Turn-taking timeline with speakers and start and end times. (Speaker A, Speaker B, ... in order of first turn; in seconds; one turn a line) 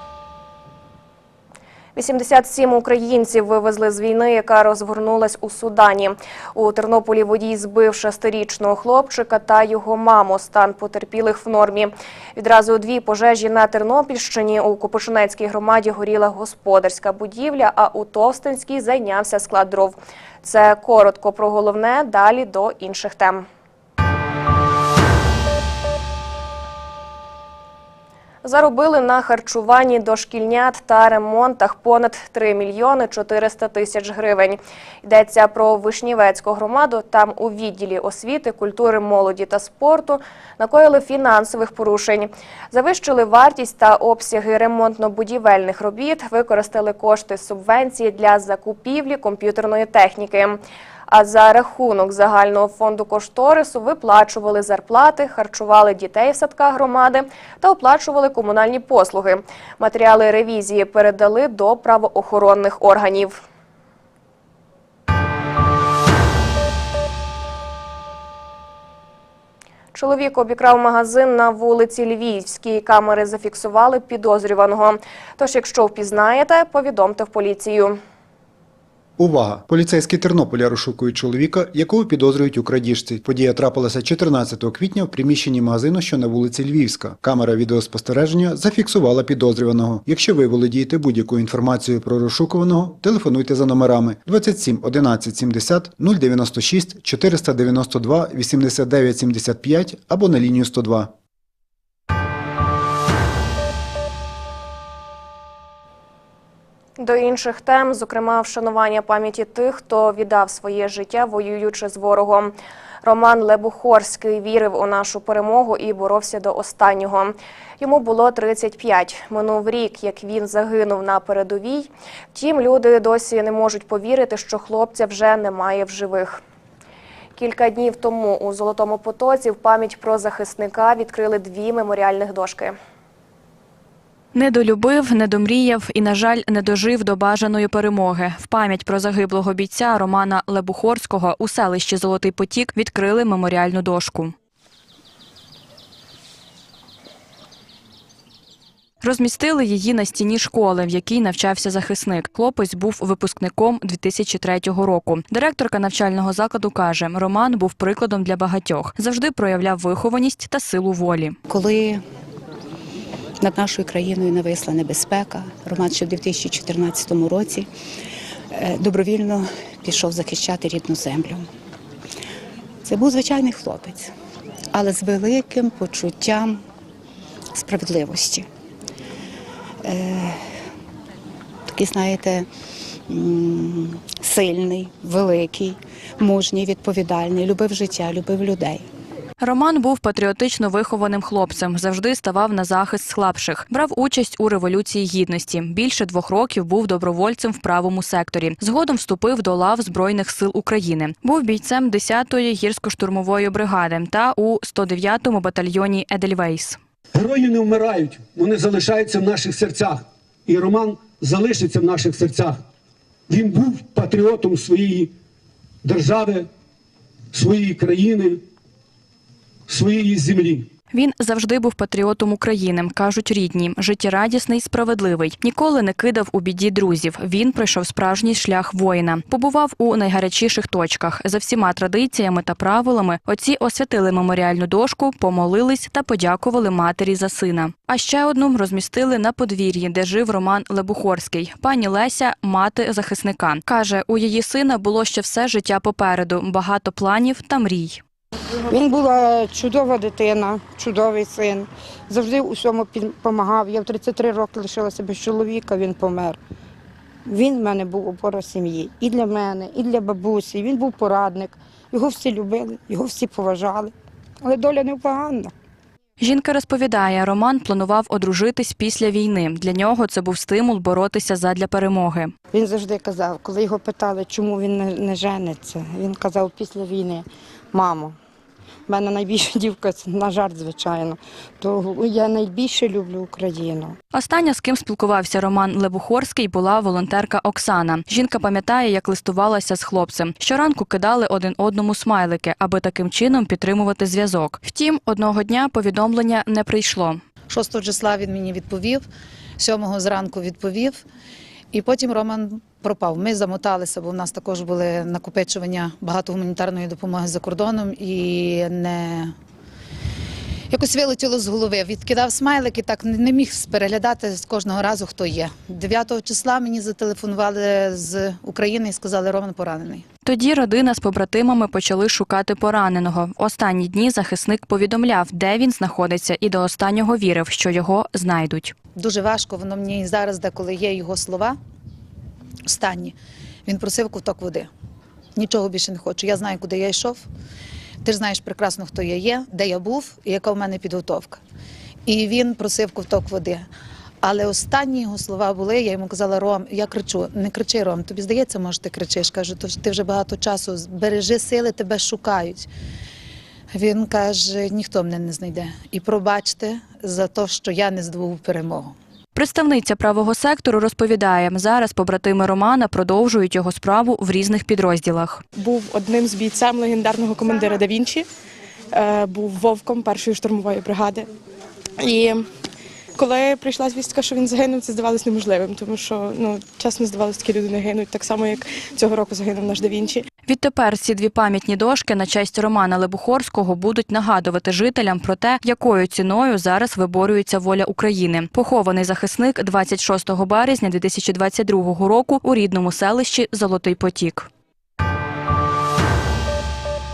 Speaker A: 1.9-23.4
Speaker A: 28.4-63.4
Speaker A: 69.9-78.0
Speaker B: 79.2-101.1
Speaker A: 107.0-126.4
Speaker A: 127.4-132.7
Speaker C: 134.3-144.3
Speaker C: 149.0-161.4
Speaker D: 161.5-162.0
Speaker D: 163.4-167.7
Speaker D: 168.5-171.4
Speaker D: 172.9-174.1
Speaker D: 174.8-176.6
Speaker D: 177.6-178.4
Speaker D: 179.9-180.4
Speaker D: 181.7-182.5
Speaker D: 183.1-188.8
Speaker C: 189.4-206.8
Speaker E: 207.1-212.6
Speaker E: 213.3-215.1
Speaker E: 215.8-216.5
Speaker E: 217.3-218.4
Speaker E: 219.7-220.7
Speaker C: 220.9-248.0
Speaker F: 248.7-256.4
Speaker F: 257.3-263.9
Speaker F: 264.4-265.5
Speaker C: 266.2-272.3
Speaker F: 272.5-278.2
Speaker F: 278.9-284.0
Speaker C: 284.1-297.2
Speaker G: 297.5-299.0
Speaker G: 299.6-301.0
Speaker G: 301.7-309.3
Speaker G: 310.7-320.0
Speaker C: 320.2-328.7
Speaker G: 329.0-331.6
Speaker G: 332.7-333.1
Speaker G: 333.7-334.7
Speaker G: 335.4-337.2
Speaker G: 338.0-341.4
Speaker G: 342.1-343.7
Speaker G: 344.2-352.7
Speaker G: 353.7-358.9
Speaker C: 359.4-365.4
Speaker H: 365.6-368.2
Speaker H: 369.0-371.2
Speaker H: 372.1-372.4
Speaker H: 373.2-380.1
Speaker C: 380.5-394.5